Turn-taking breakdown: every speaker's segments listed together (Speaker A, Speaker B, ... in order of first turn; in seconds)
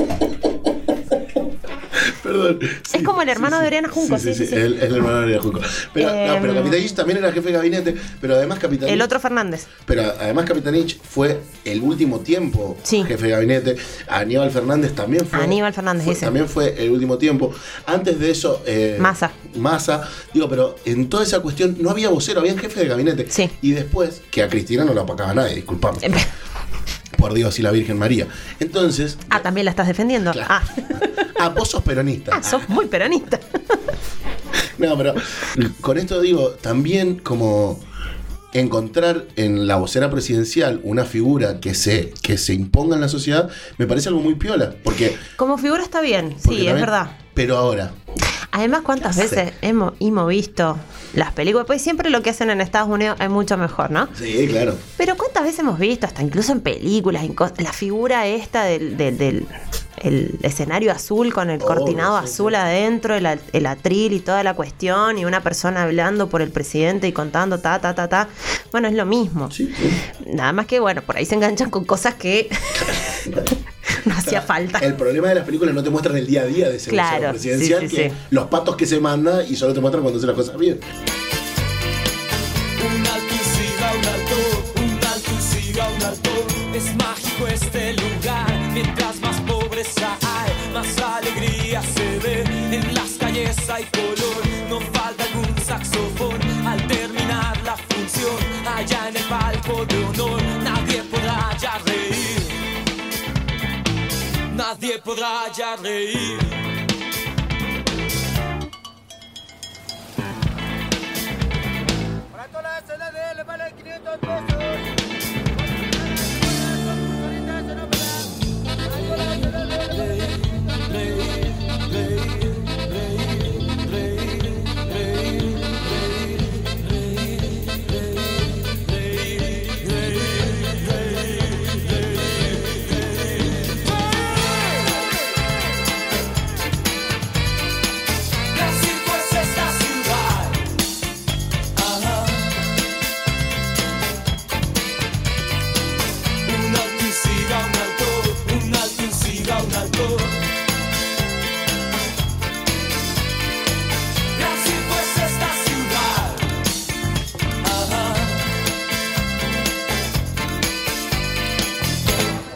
Speaker A: 1.9-9.1, 9.8-26.1, 27.1-29.4, 30.3-32.7, 34.8-37.8, 38.5-45.2, 46.4-48.0, 49.1-49.4, 54.1-54.8, 61.6-62.5, 69.5-70.0, 74.2-80.8
Speaker B: 2.9-4.6, 6.0-6.8, 8.8-9.7, 12.8-13.1, 15.3-16.3, 19.0-19.3, 26.0-26.3, 29.3-31.3, 32.3-33.6, 45.4-47.1, 48.5-54.1, 55.0-69.5, 70.2-74.9, 76.9-78.2
Speaker C: 82.8-102.6, 104.5-106.6, 128.9-133.4, 138.5-140.7, 141.8-142.7, 146.4-150.5, 154.3-156.5, 157.6-158.5